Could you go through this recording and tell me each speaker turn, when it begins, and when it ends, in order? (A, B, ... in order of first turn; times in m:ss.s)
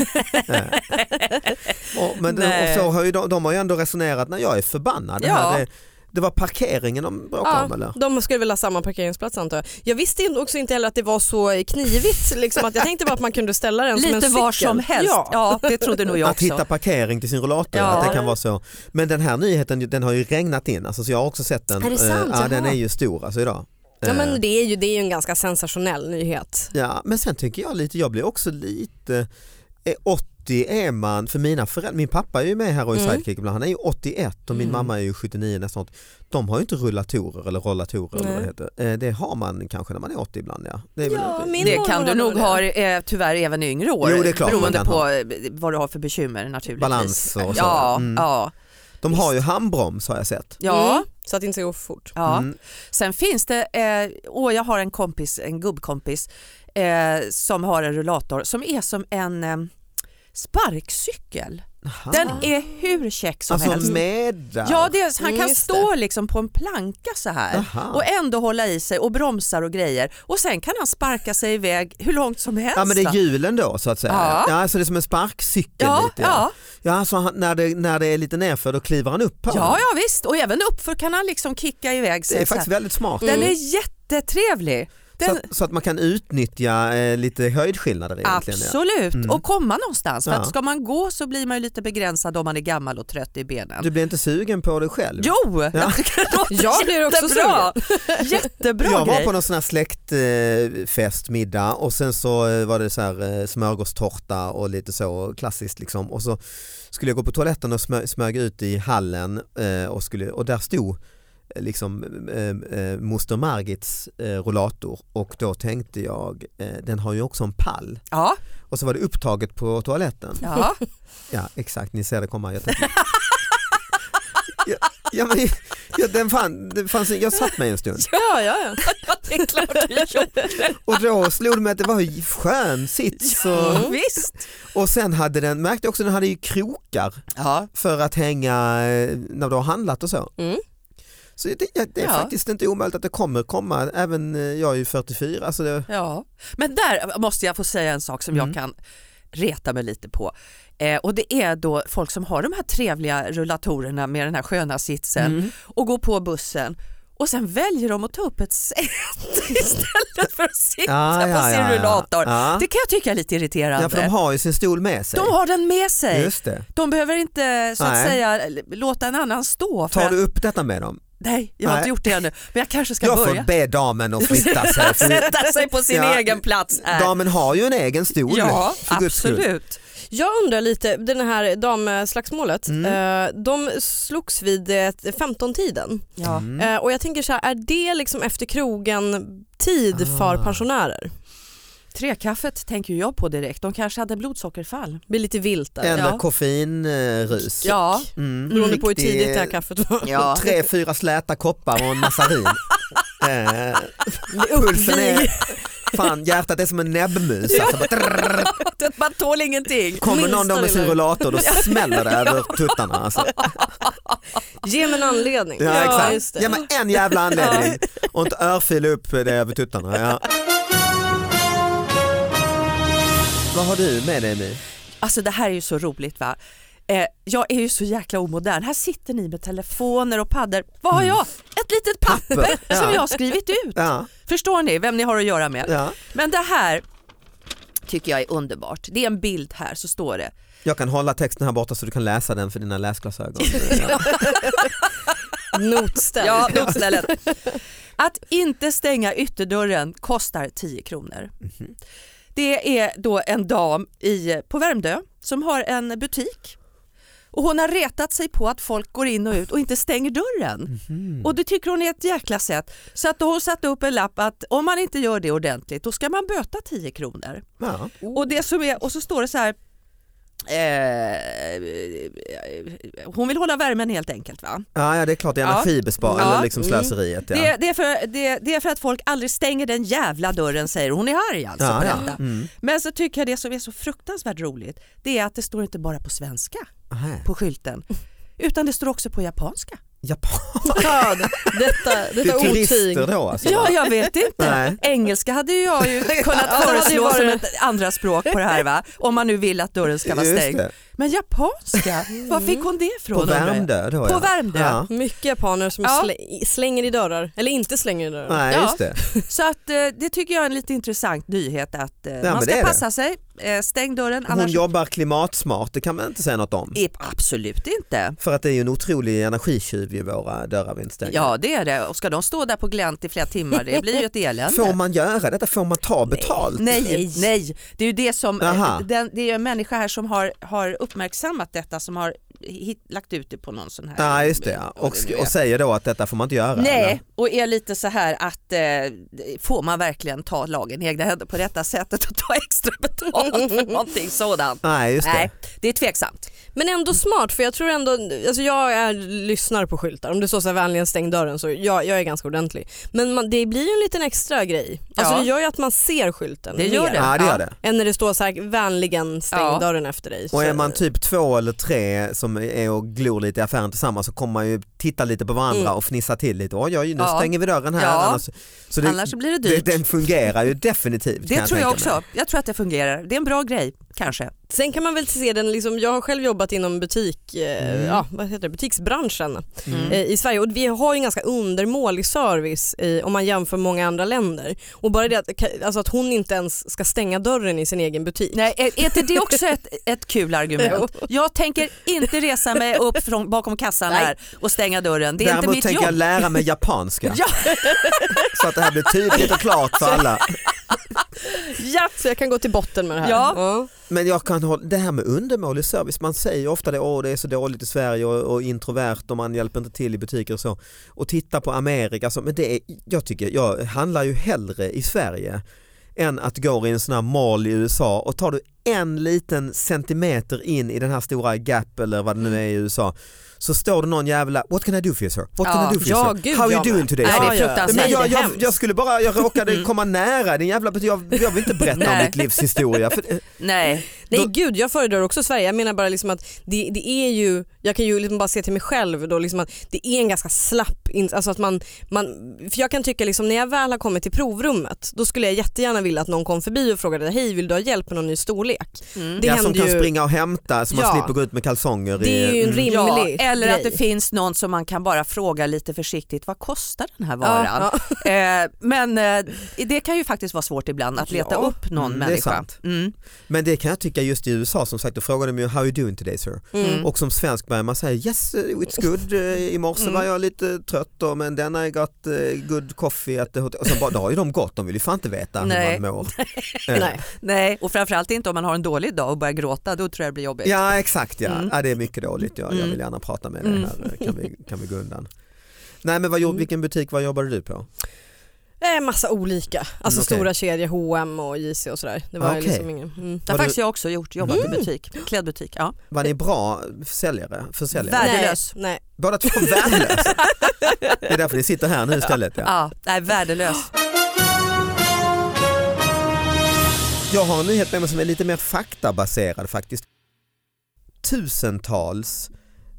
0:00.4-0:00.8 A
0:00.7-0:02.9 B
0:01.9-0:08.0 A
0:05.2-0:05.6 B
0:07.4-0:16.0 C
0:14.0-0:16.6 B
0:16.2-0:24.4 A
0:17.7-0:18.2 B
0:17.9-0:18.2 C
0:21.8-0:22.8 C
0:24.0-0:26.7 C
0:26.7-0:29.3 A
0:29.8-0:41.8 A
0:32.9-0:33.2 C
0:34.5-0:34.9 B
0:38.2-0:38.5 C
0:41.0-0:42.6 C
0:41.6-0:48.5 B
0:44.0-0:45.0 A
0:44.4-0:44.8 C
0:46.8-0:48.2 A
0:49.0-0:50.6 A
0:50.6-0:51.0 B
0:50.6-0:52.1 C
0:52.2-0:59.7 B
0:52.2-0:52.5 A
1:00.3-1:04.0 B
1:01.8-1:02.5 A
1:03.5-1:04.9 A
1:04.6-1:13.2 B
1:05.2-1:05.9 C
1:07.5-1:08.0 A
1:12.7-1:19.8 A
1:14.1-1:14.5 B
1:15.8-1:16.5 B
1:19.5-1:22.7 B
1:22.3-1:23.5 A
1:23.2-1:25.4 B
1:23.2-1:23.5 C
1:25.2-1:29.4 A
1:28.2-1:33.9 B
1:30.2-1:30.5 A
1:33.8-1:36.0 A
1:35.2-1:39.3 B
1:36.5-1:38.2 C
1:38.8-1:51.0 A
1:51.5-1:58.0 A
1:58.1-1:58.4 B
1:58.7-2:00.5 A
2:00.4-2:00.8 B
2:01.3-2:02.9 A
2:04.6-2:08.1 A
2:08.1-2:10.5 C
2:08.8-2:10.8 B
2:10.8-2:13.9 A
2:13.3-2:14.4 B
2:13.6-2:14.0 C
2:14.7-2:17.2 A
2:17.4-2:17.7 B
2:17.7-2:20.3 A
2:21.4-2:25.9 A
2:22.0-2:22.3 B
2:25.9-2:28.7 B
2:29.3-2:44.1 B
2:35.2-2:35.5 A
2:40.8-2:42.6 A
2:43.8-2:45.3 A
2:45.1-2:50.2 B
2:46.1-2:46.6 A
2:47.8-2:48.2 A
2:49.9-2:51.0 A
2:51.2-2:53.5 B
2:51.6-2:51.9 A
2:53.0-2:55.3 A
2:54.2-2:57.2 B
2:55.9-2:59.5 A
2:58.3-2:59.8 B
3:00.1-3:11.1 C
3:02.7-3:03.0 A
3:06.2-3:06.4 B
3:06.2-3:06.7 A
3:09.9-3:10.6 A
3:11.9-3:15.0 B
3:15.1-3:16.1 C
3:15.8-3:19.6 A
3:15.9-3:16.2 B
3:17.6-3:18.1 B
3:18.5-3:20.4 C
3:20.0-3:20.4 B
3:20.3-3:22.6 A
3:23.2-3:28.5 A
3:24.3-3:25.9 C
3:27.5-3:30.1 B
3:30.0-3:33.6 A
3:30.0-3:31.6 C
3:31.4-3:34.2 B
3:34.6-3:36.6 C
3:35.6-3:40.2 A
3:35.7-3:36.6 B
3:37.2-3:37.8 B
3:43.5-3:44.6 A
3:45.0-3:56.8 B
3:52.0-3:53.0 A
3:53.7-3:54.1 A
3:55.6-3:56.0 A
3:57.9-4:00.3 B
4:00.6-4:04.2 A
4:03.8-4:04.7 C
4:05.5-4:07.1 C
4:06.2-4:07.2 B
4:08.0-4:11.3 B
4:12.3-4:16.6 B
4:17.3-4:27.4 B
4:20.7-4:21.3 A
4:27.6-4:27.9 A
4:28.1-4:29.6 B
4:30.5-4:34.7 B
4:34.7-4:37.5 A
4:35.4-4:36.5 B
4:36.1-4:36.9 C
4:37.3-4:46.7 B
4:41.6-4:42.5 A
4:46.9-4:47.2 A
4:47.2-4:47.8 B
4:48.4-4:49.8 B
4:50.0-4:53.8 A
4:50.6-4:53.9 C
4:53.4-5:04.8 B
4:54.4-4:54.8 A
4:56.0-4:56.5 A
4:56.4-4:57.4 C
5:00.0-5:00.7 A
5:02.1-5:02.6 C
5:03.1-5:04.9 A
5:04.9-5:08.4 C
5:05.8-5:06.1 B
5:08.3-5:09.0 A
5:08.5-5:14.6 B
5:12.2-5:12.8 A
5:14.3-5:16.8 A
5:16.7-5:18.2 B
5:18.2-5:21.3 A
5:21.1-5:24.8 B
5:24.5-5:26.8 A
5:26.1-5:27.3 C
5:26.6-5:35.3 B
5:28.4-5:28.8 A
5:34.0-5:37.0 A
5:36.6-5:46.2 B
5:44.6-5:45.3 A
5:46.5-6:00.8 C
5:55.0-5:55.3 B
5:56.5-5:57.4 B
5:57.0-5:57.6 A
5:59.3-5:59.6 B
6:00.3-6:12.0 A
6:07.0-6:08.2 B
6:08.8-6:10.1 B
6:11.2-6:14.3 B
6:14.5-6:29.4 C
6:17.6-6:18.0 A
6:19.7-6:20.0 A
6:19.7-6:20.0 B
6:28.3-6:36.0 B
6:30.6-6:31.0 C
6:35.2-6:37.2 A
6:37.4-6:38.0 B
6:37.4-6:38.4 C
6:38.1-6:40.4 A
6:41.2-6:43.7 C
6:43.0-6:43.4 B
6:43.9-6:55.4 A
6:56.0-7:13.3 A
7:05.4-7:05.8 B
7:05.8-7:08.4 C
7:07.0-7:08.1 B
7:11.7-7:12.2 B
7:13.4-7:13.9 B
7:14.1-7:29.9 C
7:29.0-7:29.2 B
7:29.2-7:32.7 A
7:30.7-7:31.1 C
7:32.0-7:33.8 C
7:32.6-7:42.9 B
7:37.2-7:38.0 C
7:41.0-7:41.6 C
7:41.8-7:42.5 A
7:43.3-7:56.1 A
7:46.5-7:46.9 C
7:46.6-7:46.9 B
7:49.8-7:50.0 B
7:55.4-8:00.7 B
7:56.7-7:57.0 A
7:56.7-7:57.0 C
8:00.4-8:05.1 A
8:01.2-8:01.5 B
8:02.5-8:02.8 B
8:03.4-8:04.1 B
8:05.8-8:07.6 A
8:08.6-8:13.2 C
8:09.9-8:10.3 A
8:12.2-8:12.7 A
8:13.2-8:13.6 A
8:13.3-8:15.8 B
8:14.2-8:14.6 A
8:14.3-8:14.7 C
8:15.9-8:18.2 A
8:17.7-8:18.5 B
8:18.0-8:21.1 C
8:19.0-8:20.3 A
8:21.0-8:22.5 A
8:22.4-8:23.7 B
8:27.1-8:29.9 A
8:31.0-8:32.3 A